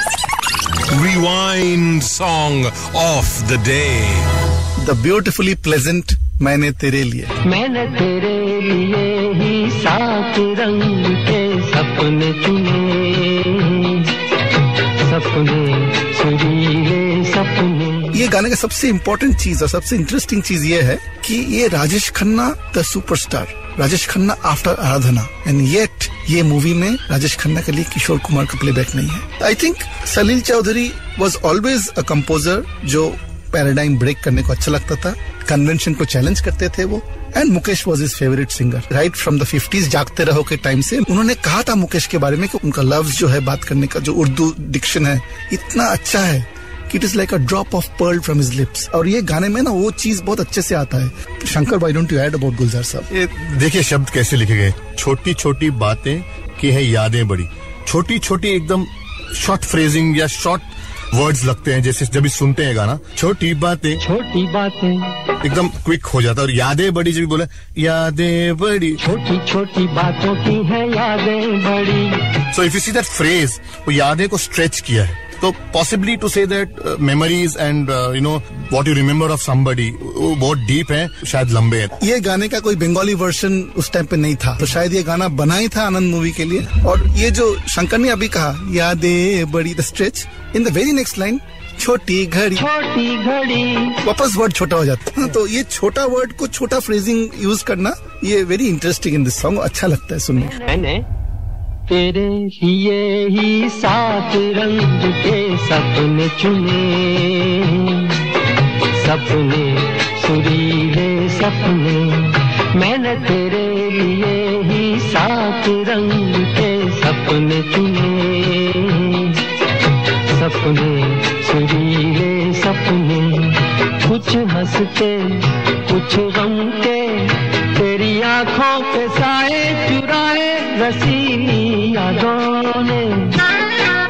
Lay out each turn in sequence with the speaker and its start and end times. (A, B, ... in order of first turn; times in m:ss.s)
0:00.9-0:04.3 A
0:04.8-0:07.3 B
0:07.4-0:14.1 C
0:15.0-0:18.2 C
0:18.1-0:53.1 B
0:53.1-1:04.0 D
1:04.0-1:05.1 C
1:05.4-1:09.0 D
1:09.0-1:12.2 C
1:12.5-1:22.0 D
1:22.0-1:32.6 B
1:32.6-1:34.0 C
1:34.0-1:40.6 B
1:40.4-1:41.0 C
1:41.9-1:48.3 C
1:48.9-1:59.4 C
2:00.2-2:13.5 C